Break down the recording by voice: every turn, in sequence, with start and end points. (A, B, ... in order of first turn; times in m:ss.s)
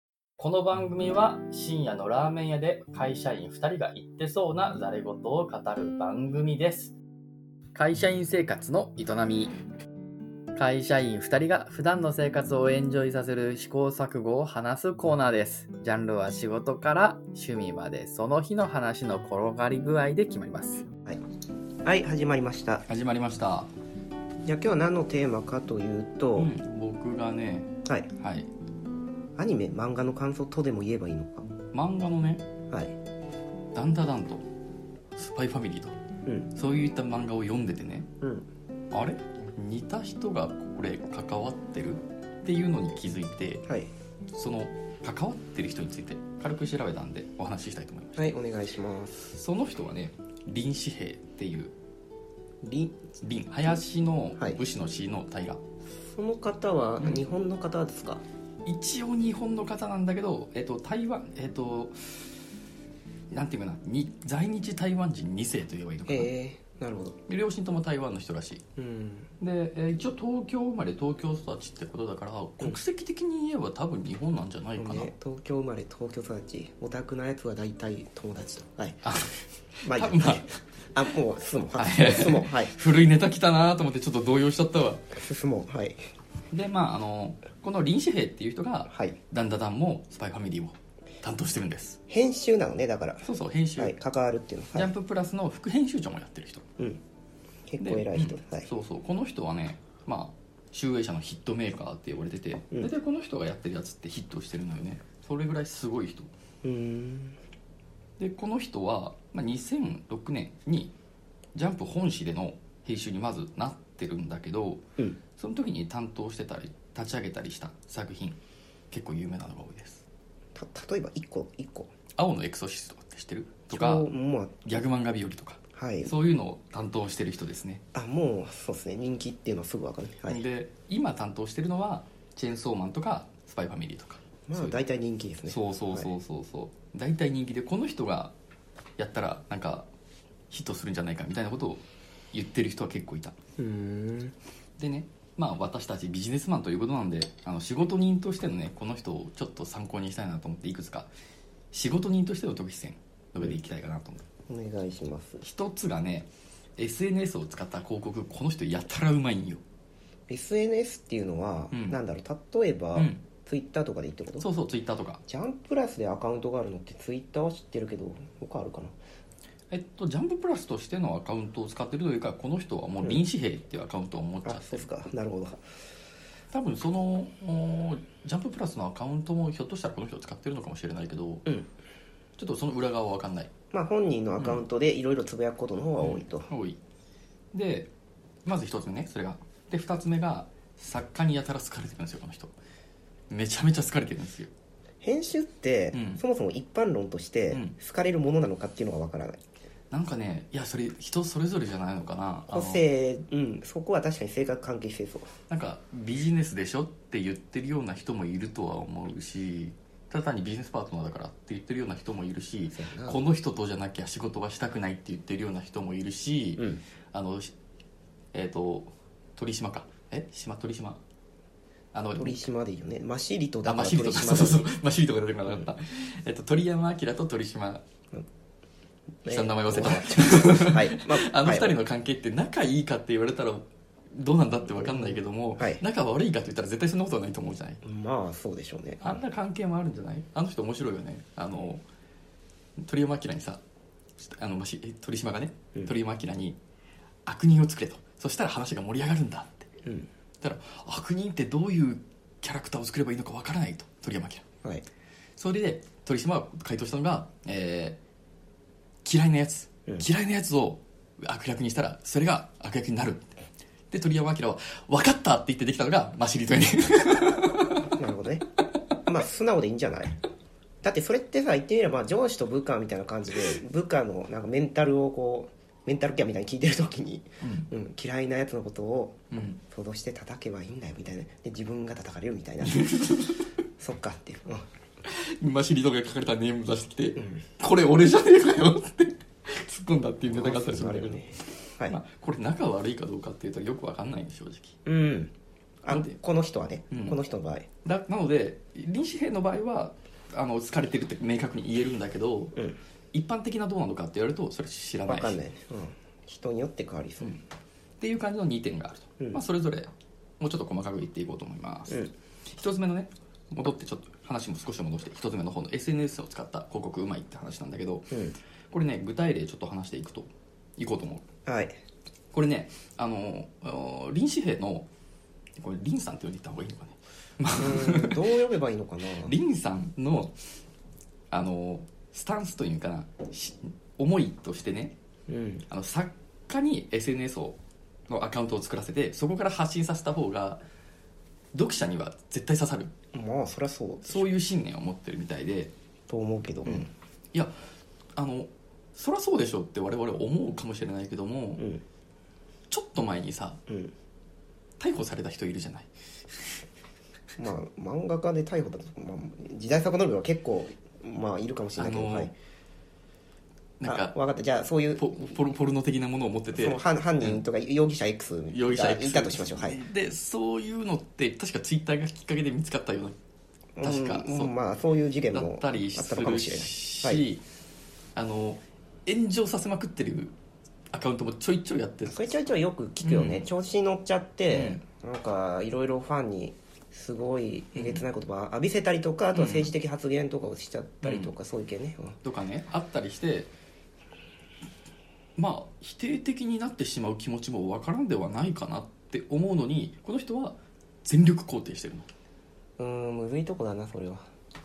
0:00.4-0:06.9 A
0:07.8-0:09.6 A
0:10.6-0:20.9 A
0:21.8-0:22.8 B
0:22.9-0:23.7 C
0:24.4-0:26.5 B
0:26.4-0:28.5 C
0:29.4-0:31.4 B
0:31.7-0:32.4 C
0:33.7-0:34.4 C
0:35.2-0:36.0 C
0:36.5-0:38.1 C
0:38.2-0:38.5 B
0:38.9-0:43.6 C
0:44.3-0:48.3 C
0:48.2-0:49.2 B
0:49.2-0:51.7 C
0:52.6-0:53.0 B
0:53.2-0:55.6 C
0:56.1-0:58.2 B
0:58.6-1:02.1 C
1:03.3-1:06.3 C
1:06.1-1:07.2 B
1:07.3-1:08.7 C
1:08.8-1:09.3 B
1:09.4-1:15.1 C
1:14.8-1:19.1 B
1:19.0-1:20.4 C
1:19.8-1:22.7 B
1:21.8-1:25.1 C
1:25.1-1:26.0 B
1:26.5-1:32.0 C
1:28.9-1:29.2 B
1:32.1-1:33.2 B
1:33.2-1:34.0 C
1:33.8-1:34.9 B
1:34.7-1:36.7 C
1:37.7-1:38.7 B
1:37.8-1:46.3 C
1:46.6-1:47.4 B
1:48.2-1:50.9 C
1:51.6-1:54.8 C
1:55.4-1:58.4 C
1:58.9-2:00.0 C
2:00.6-2:01.9 B
2:02.2-2:04.1 C
2:03.7-2:04.7 B
2:04.6-2:07.8 C
2:05.7-2:06.1 B
2:07.9-2:10.4 B
2:10.3-2:14.8 C
2:14.5-2:16.1 B
2:15.5-2:18.3 C
2:19.0-2:19.9 C
2:20.5-2:21.8 C
2:22.3-2:23.4 C
2:23.6-2:24.4 B
2:24.8-2:31.1 C
2:31.7-2:34.2 C
2:34.5-2:35.4 B
2:35.4-2:39.6 C
2:40.3-2:44.5 B
2:41.7-2:42.0 C
2:43.0-2:43.2 C
2:44.4-2:45.2 C
2:45.3-2:49.0 B
2:49.7-2:54.9 C
2:54.4-2:55.6 B
2:56.5-3:01.5 C
3:02.4-3:03.5 C
3:03.7-3:06.5 B
3:06.0-3:06.8 C
3:07.5-3:07.9 C
3:08.4-3:12.5 C
3:13.3-3:14.5 C
3:15.0-3:19.4 B
3:15.9-3:16.2 C
3:17.5-3:17.8 C
3:19.9-3:22.8 C
3:22.5-3:25.3 B
3:25.5-3:37.5 C
3:32.8-3:33.2 B
3:38.3-3:41.0 C
3:41.9-3:42.4 C
3:42.2-3:44.7 B
3:43.6-3:47.8 C
3:49.2-3:51.8 B
3:49.3-3:57.8 C
3:54.7-3:55.8 B
3:57.8-3:59.2 B
3:59.0-4:01.8 C
4:02.8-4:03.6 C
4:04.2-4:06.6 C
4:07.2-4:09.7 C
4:10.4-4:14.4 C
4:15.4-4:18.0 C
4:19.0-4:23.4 C
4:23.9-4:27.8 C
4:27.9-4:28.4 B
4:29.1-4:30.2 B
4:30.8-4:43.0 B
4:37.4-4:37.7 C
4:39.3-4:39.6 C
4:42.6-4:43.4 C
4:43.8-4:44.7 B
4:45.0-4:54.8 C
4:47.2-4:47.4 B
4:50.3-4:52.0 B
4:54.9-4:55.3 B
4:55.8-4:57.7 B
4:55.9-4:56.2 C
4:56.9-4:57.2 C
4:57.8-5:02.6 C
5:03.1-5:05.4 C
5:05.1-5:07.4 B
5:08.0-5:18.2 C
5:18.7-5:21.2 C
5:21.5-5:21.8 B
5:22.3-5:24.9 C
5:25.6-5:28.2 C
5:27.6-5:29.3 B
5:29.2-5:30.3 C
5:31.3-5:35.0 C
5:35.3-5:35.7 B
5:35.7-5:37.6 C
5:38.1-5:40.6 C
5:41.5-5:42.9 C
5:43.1-5:44.3 B
5:44.0-5:45.7 C
5:46.1-5:46.9 B
5:46.7-5:47.6 C
5:48.2-5:51.7 C
5:52.7-5:53.6 C
5:53.7-5:53.9 B
5:54.8-5:56.6 C
5:57.4-6:02.3 B
6:01.8-6:02.3 C
6:03.8-6:04.2 C
6:03.8-6:05.3 B
6:05.0-6:07.4 C
6:06.5-6:09.8 B
6:08.5-6:13.2 C
6:13.8-6:17.2 B
6:13.8-6:14.5 C
6:15.3-6:17.4 C
6:18.2-6:20.3 C
6:20.9-6:22.3 C
6:22.1-6:32.2 B
6:23.0-6:23.5 C
6:24.5-6:24.8 C
6:27.7-6:28.0 C
6:29.4-6:29.7 C
6:31.0-6:31.3 C
6:32.2-6:33.5 C
6:35.4-6:42.1 C
6:42.8-6:44.2 B